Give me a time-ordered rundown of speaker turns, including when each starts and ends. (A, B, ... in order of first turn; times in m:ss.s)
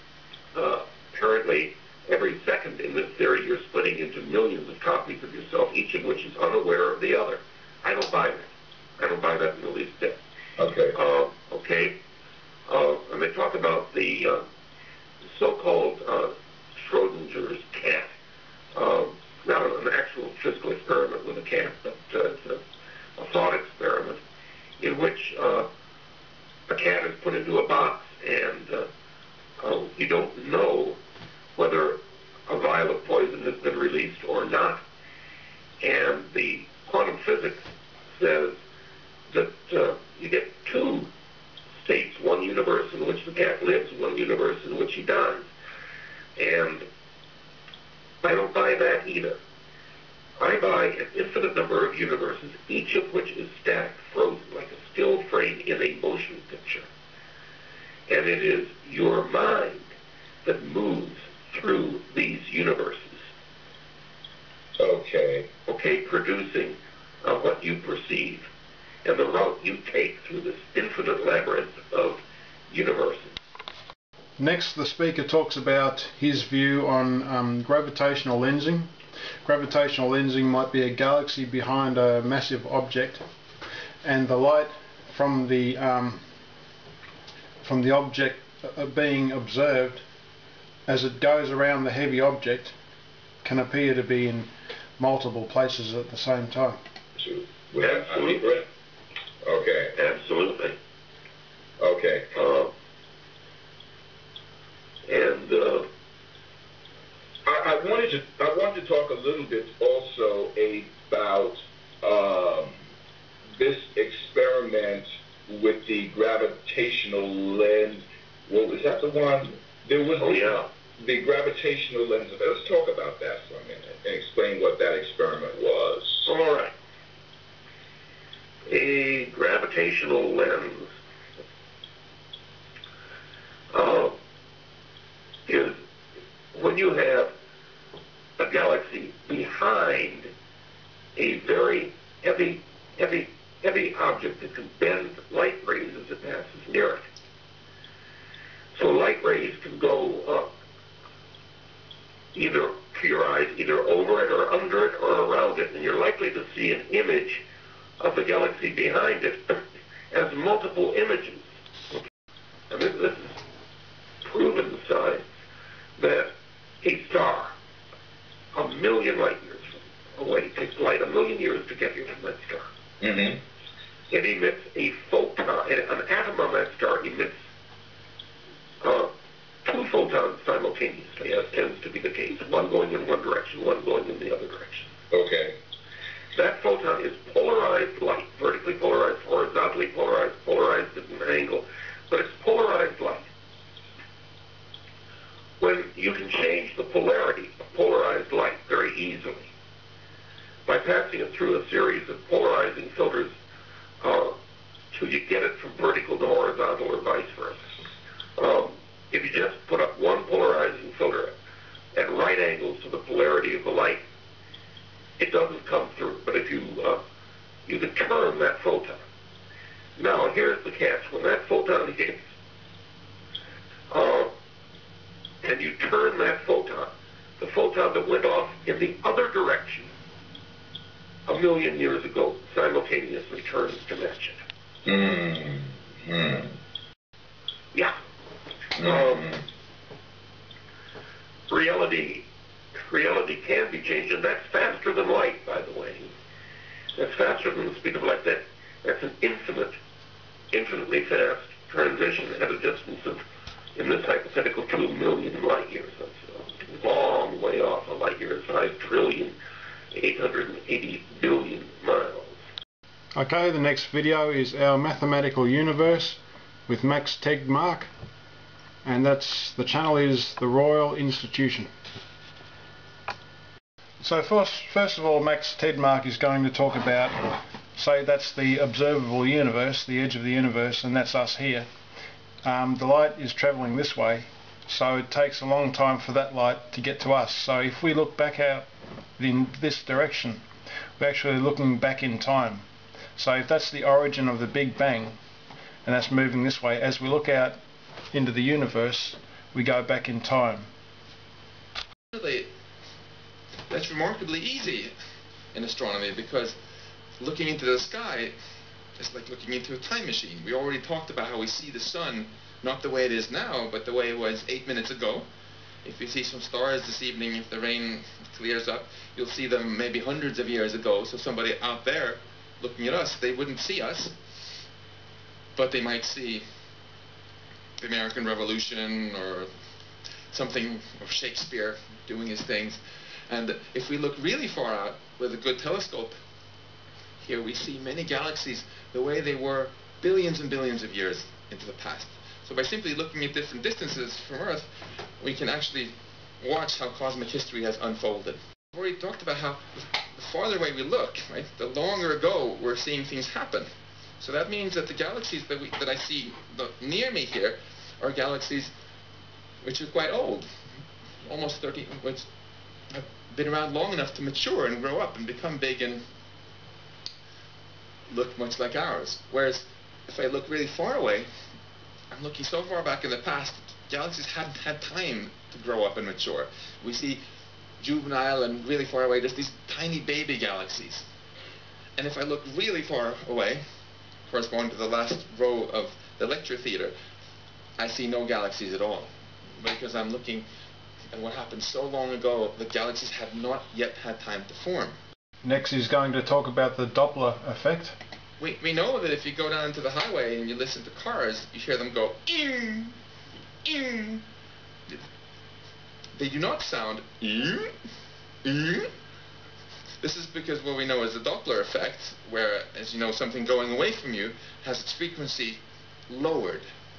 0:00.5-0:10.2 A
0:10.6-0:11.0 B
0:10.9-0:11.9 A
0:12.7-0:14.4 A
0:15.3-0:18.1 A
0:18.7-0:22.6 A
0:23.2-0:24.2 A
0:24.8-0:25.7 A
0:26.7-0:28.9 A
0:29.6-0:31.0 A
0:31.6-0:34.8 A
0:35.8-0:38.6 A
0:39.3-0:41.1 A
0:41.8-0:45.5 A
0:46.4-0:46.8 A
0:48.2-0:49.4 A
0:50.4-0:56.9 A
0:58.1-0:59.9 A
1:00.4-1:03.2 A
1:04.8-1:05.5 B
1:05.6-1:08.5 A
1:09.0-1:13.4 A
1:14.4-1:18.9 C
1:19.4-1:23.2 C
1:24.0-1:26.2 C
1:27.6-1:30.0 C
1:30.9-1:32.7 C
1:33.4-1:36.8 C
1:37.2-1:38.6 B
1:37.8-1:38.6 A
1:39.4-1:39.9 B
1:39.9-1:40.8 A
1:41.8-1:42.3 B
1:42.3-1:42.7 A
1:45.1-1:45.9 A
1:47.4-1:52.8 B
1:53.6-2:06.3 B
2:00.2-2:00.7 A
2:06.2-2:06.7 A
2:08.7-2:10.9 A
2:13.7-2:14.2 A
2:15.4-2:15.8 A
2:16.5-2:17.3 A
2:18.4-2:20.3 A
2:21.2-2:27.0 A
2:28.7-2:30.5 A
2:32.3-2:37.4 A
2:38.0-2:42.0 A
2:42.7-2:43.4 A
2:44.2-2:45.2 A
2:46.0-2:46.3 A
2:46.8-2:47.5 A
2:48.5-2:52.7 A
2:53.0-2:53.4 B
2:54.1-2:57.3 A
2:58.8-2:59.1 A
2:59.6-3:04.9 A
3:05.1-3:05.6 B
3:06.3-3:13.3 A
3:15.6-3:19.5 A
3:20.6-3:23.3 A
3:24.0-3:24.4 A
3:24.9-3:27.6 A
3:28.4-3:31.3 A
3:31.9-3:34.0 A
3:35.2-3:37.0 A
3:37.6-3:39.0 A
3:40.0-3:42.2 A
3:43.9-3:44.3 A
3:45.4-3:49.9 A
3:51.2-3:54.4 A
3:54.8-3:56.5 B
3:58.8-3:59.3 A
3:58.8-3:59.4 B
4:01.5-4:02.2 A
4:02.7-4:06.1 A
4:06.9-4:09.8 A
4:10.5-4:13.2 A
4:13.7-4:19.4 A
4:19.9-4:22.4 A
4:23.1-4:27.9 C
4:28.8-4:31.7 C
4:34.0-4:41.7 C
4:42.4-4:50.4 C
4:51.0-4:55.2 C
4:55.8-4:57.6 C
4:58.1-5:00.7 C
5:02.1-5:02.5 D
5:03.7-5:04.9 D
5:05.5-5:06.6 D
5:07.2-5:08.4 D
5:09.0-5:15.2 D
5:15.8-5:24.2 D
5:25.6-5:26.4 D
5:27.8-5:29.5 D
5:30.3-5:36.1 D
5:37.2-5:44.7 D
5:45.2-5:58.7 D
5:59.6-6:00.5 D
6:01.2-6:02.3 D
6:02.9-6:06.0 D
6:08.1-6:11.3 D
6:12.1-6:17.2 D
6:17.8-6:21.1 D
6:22.0-6:23.6 D
6:24.3-6:26.9 D
6:27.8-6:30.4 D
6:31.1-6:35.0 D
6:35.4-6:38.0 C
6:38.4-6:43.0 D
6:43.6-6:44.2 D
6:46.1-6:47.8 D
6:48.4-6:48.9 D
6:50.0-6:56.6 D